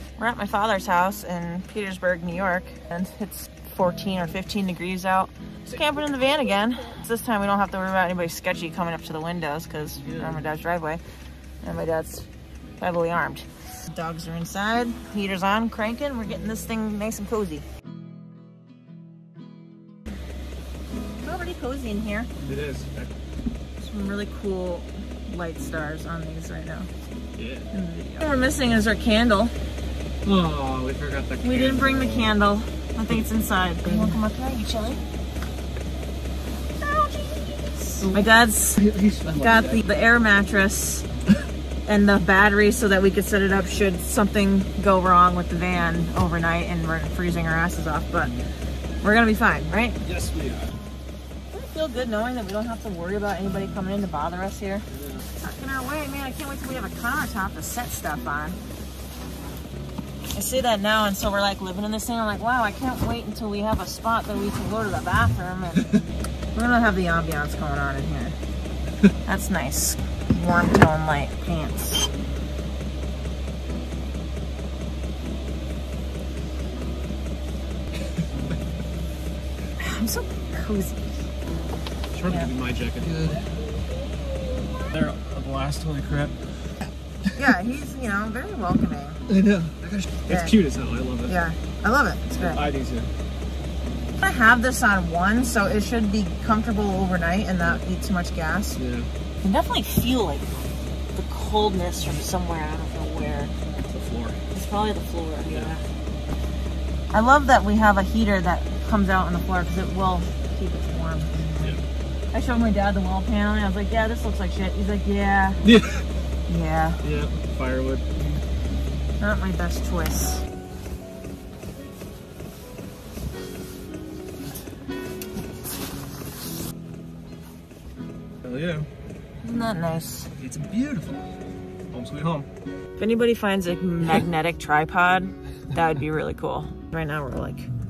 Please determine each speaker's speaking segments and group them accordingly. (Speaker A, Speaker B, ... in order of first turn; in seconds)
Speaker A: 0.2-11.0, 11.6-12.3, 12.8-17.6, 21.2-22.3, 23.8-26.9, 27.7-29.5, 31.4-35.0, 36.8-41.1, 41.9-48.4, 49.0-50.0, 51.5-54.9, 55.4-58.6, 60.3-66.0, 66.5-68.4, 69.2-72.1, 79.8-81.1, 83.4-84.9, 87.3-89.2, 90.3-90.6, 91.3-92.6, 94.2-98.8, 99.4-100.5, 101.1-103.5, 104.5-105.8, 107.1-111.3, 112.3-115.6, 116.5-117.0, 119.2-120.4, 129.4-130.3, 133.0-137.7
Speaker B: 5.7-6.5, 10.0-10.4, 22.4-23.1, 27.4-27.7, 30.2-32.4, 38.8-39.8, 50.0-50.7, 54.9-55.2, 82.1-83.4, 84.9-86.3, 89.3-91.4, 92.3-93.1, 98.8-99.1, 103.9-104.4, 115.6-116.0, 117.0-118.4, 128.4-128.9, 130.4-131.2, 131.9-132.5